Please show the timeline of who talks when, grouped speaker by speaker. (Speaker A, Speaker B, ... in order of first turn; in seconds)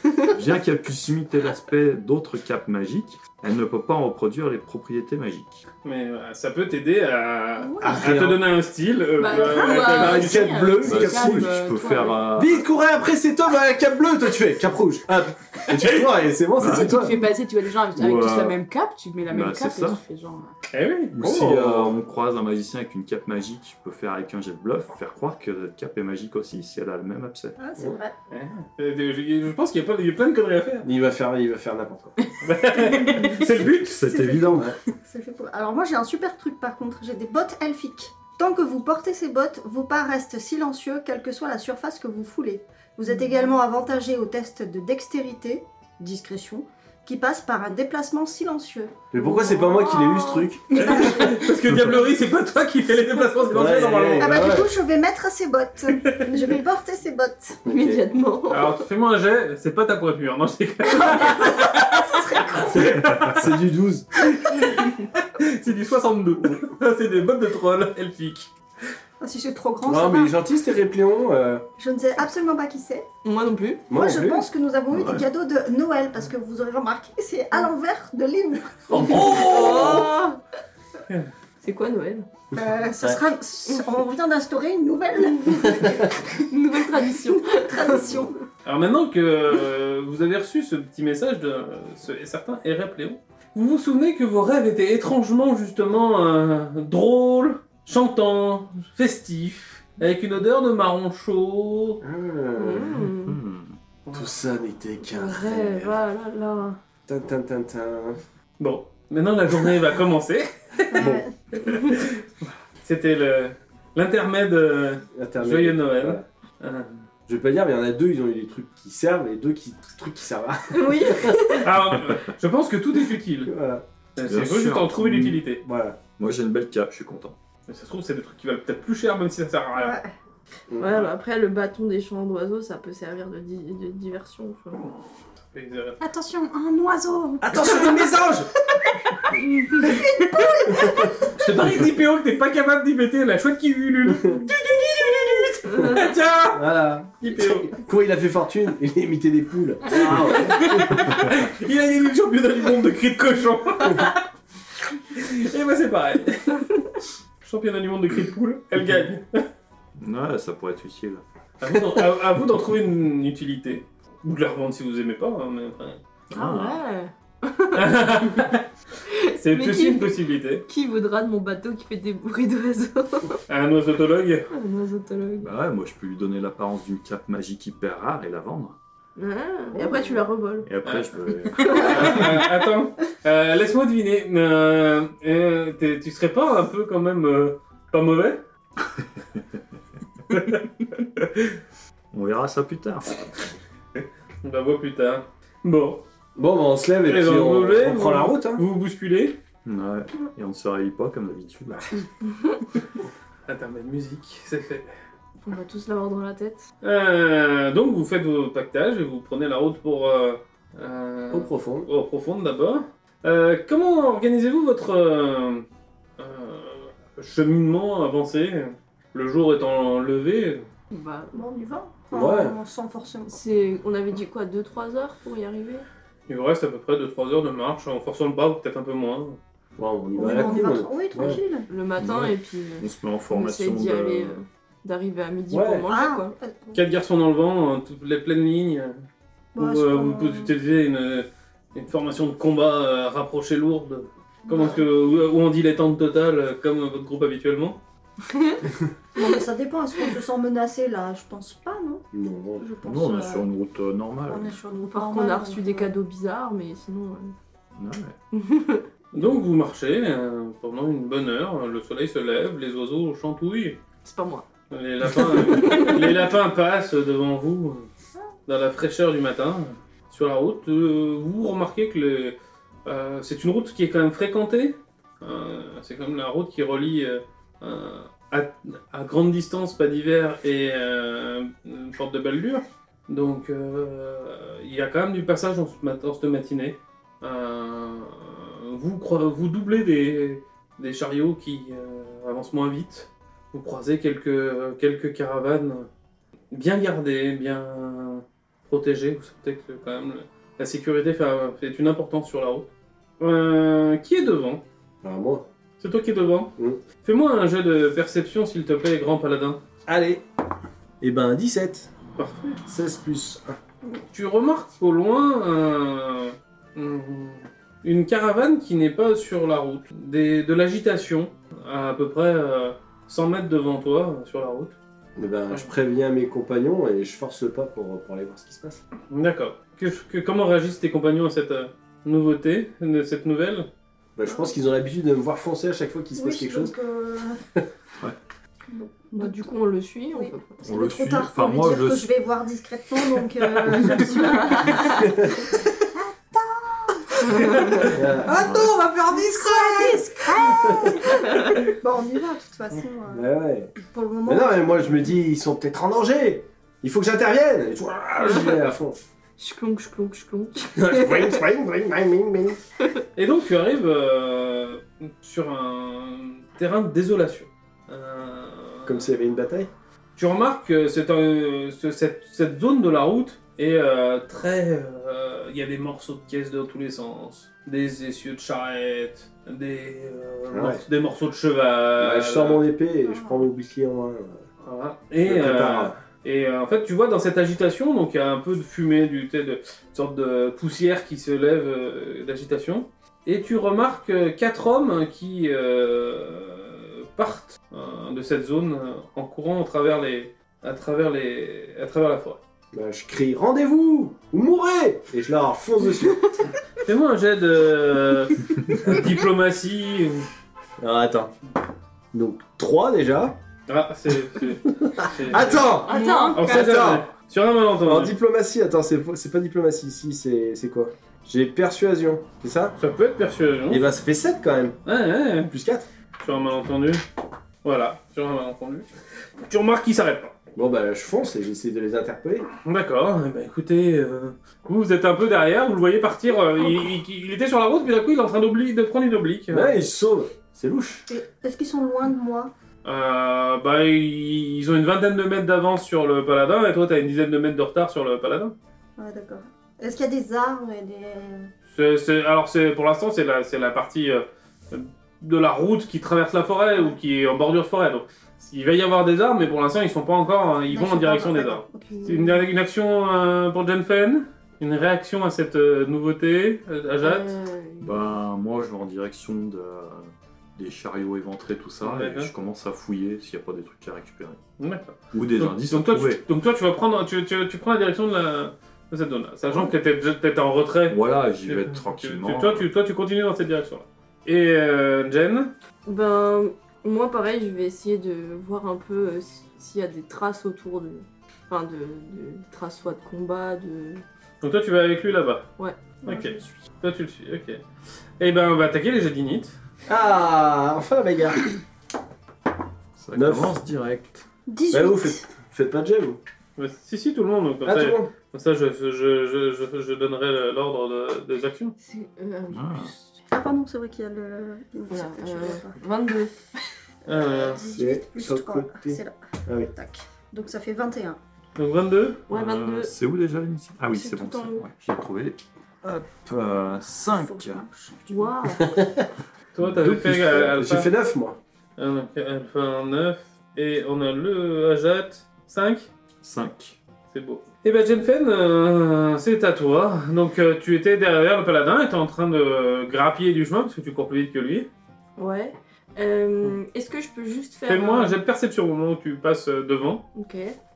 Speaker A: 0.2-5.6, 10.8-12.7, 16.6-17.2, 17.9-18.6, 19.3-20.0, 21.1-27.6, 33.6-34.7, 74.9-75.2, 102.9-103.8, 124.2-125.5, 126.1-127.3, 160.0-161.2, 166.3-166.8, 175.4-178.8, 180.6-182.4, 192.1-193.4, 199.6-201.9, 231.9-234.4, 252.8-254.6, 257.8-258.1, 340.6-342.1, 348.3-348.7, 467.8-474.4, 475.1-476.2, 480.9-482.7, 503.0-504.2, 512.5-512.9, 522.3-527.6, 529.6-530.1, 536.2-536.8
Speaker B: 5.8-10.5, 20.7-21.2, 28.3-30.9, 32.4-34.0, 50.8-54.4, 58.5-63.5, 64.2-68.5, 78.9-79.7, 88.6-102.0, 104.0-104.3, 108.6-117.1, 121.6-123.5, 124.2-125.6, 127.7-129.9, 135.5-136.0, 141.3-147.7, 150.3-154.2, 155.1-156.6, 157.4-159.4, 161.6-166.0, 167.7-168.7, 169.3-170.6, 173.5-174.5, 180.8-188.4, 190.3-191.6, 194.4-196.0, 197.0-199.4, 203.5-204.9, 206.8-215.6, 216.2-220.7, 226.3-229.4, 236.7-238.9, 239.6-247.8, 259.1-263.8, 264.7-267.9, 268.5-295.9, 296.5-304.6, 305.8-306.5, 307.0-309.6, 312.2-312.6, 314.1-324.8, 329.1-333.7, 347.4-347.9, 363.1-369.1, 370.1-382.6, 384.6-402.4, 406.9-410.2, 413.7-415.8, 416.3-418.1, 422.8-423.8, 424.9-425.5, 426.2-427.0, 427.6-430.3, 432.6-439.8, 442.8-448.5, 451.7-467.3, 471.8-472.3, 474.6-485.5, 494.4-495.5, 496.0-497.6, 498.2-499.5, 506.6-511.7, 517.0-517.6, 521.6-522.2, 529.5-530.9, 531.8-535.9, 537.1-544.7, 547.7-550.0
Speaker C: 7.6-8.0, 27.6-28.1, 34.0-49.0, 54.2-57.6, 69.2-70.3, 71.8-73.1, 73.9-80.2, 82.5-86.4, 87.5-88.4, 110.9-111.3, 120.7-121.3, 129.8-130.1, 139.8-141.2, 221.3-223.4, 230.1-231.7, 235.9-236.8, 239.5-240.5, 244.5-244.8, 249.1-252.1, 252.6-253.5, 254.3-255.9, 336.1-337.4, 338.7-339.5, 340.1-348.3, 349.1-353.2, 353.8-354.7, 383.0-383.5, 441.1-442.5, 449.0-451.5, 460.7-462.4, 496.0-496.6, 504.5-505.2, 513.3-515.8, 517.0-519.1, 519.7-521.2, 527.0-528.4
Speaker D: 7.8-8.4, 9.9-11.5, 12.3-17.2, 21.2-22.0, 30.8-32.1, 49.1-51.2, 53.5-54.7, 57.6-58.0, 62.7-64.1, 69.8-71.6, 73.9-74.5, 79.2-80.1, 82.5-83.2, 85.6-86.1, 88.0-88.3, 102.0-103.0, 104.1-106.0, 107.1-108.2, 115.1-116.2, 117.3-121.4, 123.5-123.8, 125.6-126.0, 130.7-131.0, 137.4-138.5, 140.7-141.3, 146.5-151.0, 196.3-198.6, 211.3-211.9, 222.1-222.6, 229.8-231.4, 235.5-235.9, 252.1-252.7, 305.0-305.4, 306.6-306.8, 309.9-310.2, 311.0-311.9, 312.6-313.6, 325.1-328.8, 334.1-336.7, 344.9-345.5, 347.9-351.1, 353.1-353.7, 354.2-359.0, 360.7-362.6, 368.9-369.7, 380.5-380.8, 382.0-384.4, 385.2-386.0, 402.7-406.2, 410.8-411.3, 412.1-413.4, 414.8-417.1, 417.8-422.7, 423.7-424.8, 425.5-425.9, 430.5-432.4, 439.5-441.1, 499.9-501.5, 503.1-503.6, 504.7-506.2, 507.6-508.1, 517.7-519.7, 528.6-529.0, 529.8-531.4
Speaker E: 9.2-12.3, 16.6-20.5, 136.0-137.8, 350.6-351.0, 415.8-417.0
Speaker F: 49.1-51.0, 57.6-58.8, 73.2-73.8, 79.0-80.4, 81.6-82.3, 86.5-88.1, 102.6-103.4, 105.0-106.8, 120.8-121.7, 130.8-134.9, 166.3-168.0, 169.1-173.4, 174.5-175.5, 179.2-180.7, 181.6-182.3, 205.4-206.6, 220.9-221.4, 223.3-225.8, 231.7-236.3, 248.3-248.6, 254.9-257.3, 258.3-258.8, 264.0-264.5, 265.4-266.1, 339.1-340.6, 344.4-344.8, 358.2-358.6, 359.4-361.4, 415.8-416.6, 467.0-468.2, 485.9-494.0, 511.8-513.1, 514.9-516.6, 522.3-522.9, 523.9-524.6, 528.1-528.8, 545.2-548.2, 550.1-550.6